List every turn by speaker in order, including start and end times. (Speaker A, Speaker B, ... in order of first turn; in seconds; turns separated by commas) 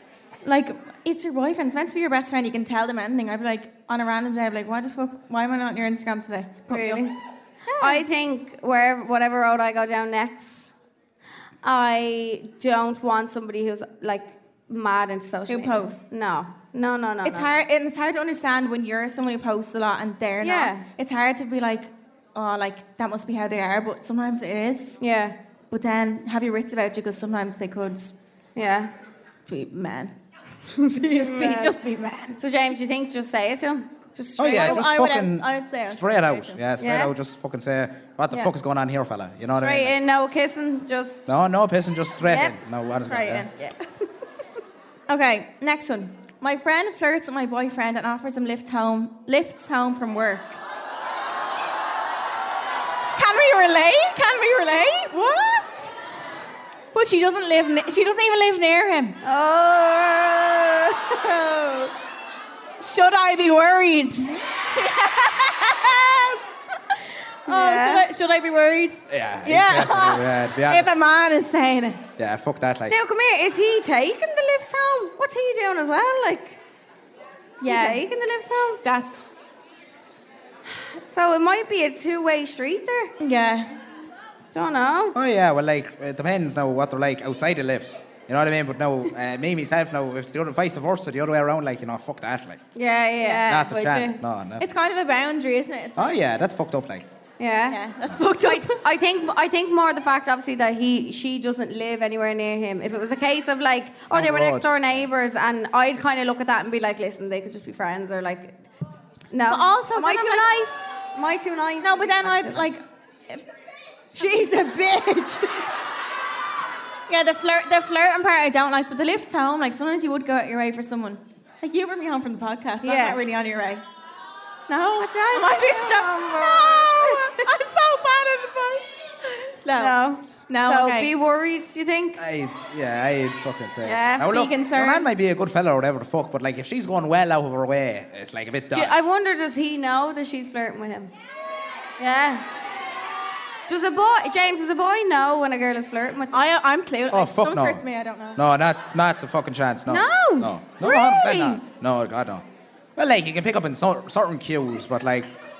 Speaker A: 0.4-7.1, Speaker B: 6.7-7.2, Speaker A: 7.7-8.0, Speaker B: 7.8-10.7, Speaker B: 11.6-17.6, Speaker A: 15.5-16.0, Speaker A: 17.2-25.0, Speaker B: 20.4-20.9, Speaker B: 25.0-25.4, Speaker A: 25.7-28.1, Speaker B: 28.6-28.9, Speaker A: 29.5-30.1, Speaker B: 30.7-31.8, Speaker A: 30.9-32.4, Speaker B: 32.4-34.9, Speaker C: 34.4-39.9, Speaker A: 34.5-36.6, Speaker B: 36.8-37.1, Speaker B: 39.5-41.3, Speaker C: 41.3-43.5, Speaker B: 42.2-42.6, Speaker A: 43.0-43.5, Speaker B: 43.5-43.9, Speaker A: 45.1-50.6, Speaker A: 53.1-55.9, Speaker A: 56.9-59.2, Speaker B: 59.2-61.9, Speaker A: 62.8-72.1, Speaker B: 67.5-68.1, Speaker C: 69.1-70.9, Speaker C: 72.2-72.9, Speaker B: 72.9-76.6, Speaker B: 77.6-78.8, Speaker A: 77.6-78.0, Speaker A: 78.8-79.3, Speaker B: 81.1-83.1, Speaker A: 83.2-83.8, Speaker B: 84.5-85.2, Speaker C: 85.1-92.6, Speaker B: 92.7-94.2, Speaker A: 93.2-93.7, Speaker C: 93.5-94.6, Speaker A: 94.6-96.2, Speaker C: 96.0-97.1, Speaker B: 97.4-97.8, Speaker A: 97.7-98.8, Speaker B: 98.4-108.6, Speaker C: 104.1-104.7, Speaker B: 109.3-112.7, Speaker A: 109.5-110.6, Speaker A: 111.8-113.4, Speaker B: 114.1-115.7, Speaker A: 117.1-123.8, Speaker B: 122.8-123.2, Speaker A: 124.7-129.9, Speaker B: 125.0-127.5, Speaker B: 129.7-132.2, Speaker A: 130.5-131.1, Speaker C: 132.2-138.9, Speaker B: 133.8-134.4, Speaker A: 134.2-135.1, Speaker B: 138.7-141.1, Speaker B: 142.0-142.4, Speaker B: 143.7-146.4, Speaker A: 146.3-148.4, Speaker C: 147.1-147.8, Speaker C: 148.3-152.4, Speaker A: 149.9-151.6, Speaker C: 152.9-155.3